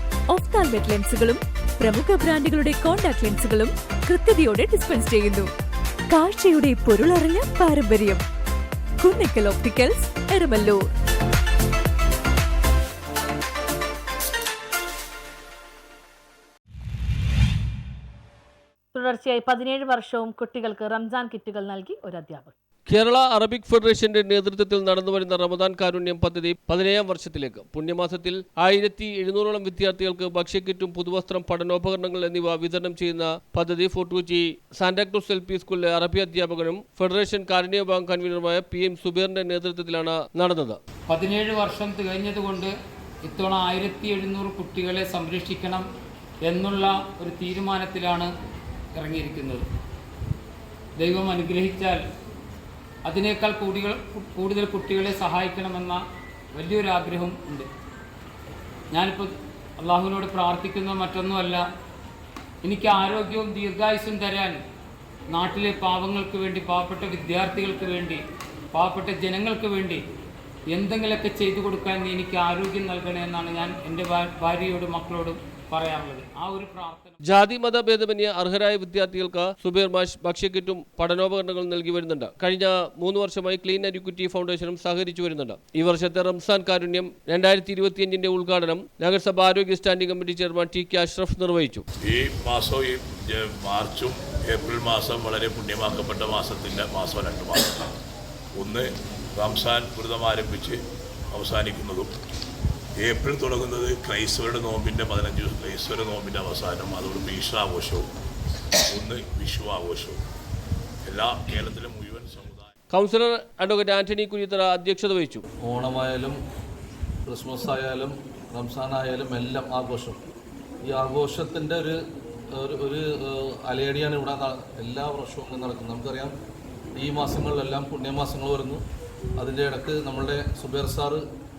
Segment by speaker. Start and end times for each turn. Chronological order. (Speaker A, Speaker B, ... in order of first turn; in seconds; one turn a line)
Speaker A: 0.3-5.5
Speaker A: 6.1-8.2
Speaker A: 9.0-10.9
Speaker B: 18.9-22.5
Speaker C: 22.9-40.8
Speaker D: 41.1-42.7
Speaker D: 43.2-45.8
Speaker D: 46.4-48.3
Speaker D: 48.9-49.6
Speaker D: 51.0-52.0
Speaker D: 53.0-56.0
Speaker D: 56.5-57.7
Speaker D: 58.9-61.6
Speaker D: 62.6-64.6
Speaker D: 65.3-68.2
Speaker D: 68.7-70.0
Speaker D: 70.7-77.2
Speaker C: 77.2-91.8
Speaker E: 92.0-97.9
Speaker E: 98.5-100.8
Speaker E: 101.3-102.1
Speaker E: 103.0-108.1
Speaker E: 108.9-110.2
Speaker E: 111.0-112.7
Speaker C: 112.9-115.4
Speaker F: 115.6-116.3
Speaker F: 117.2-120.2
Speaker F: 120.8-122.0
Speaker F: 122.5-126.3
Speaker F: 127.0-128.8
Speaker F: 129.4-131.2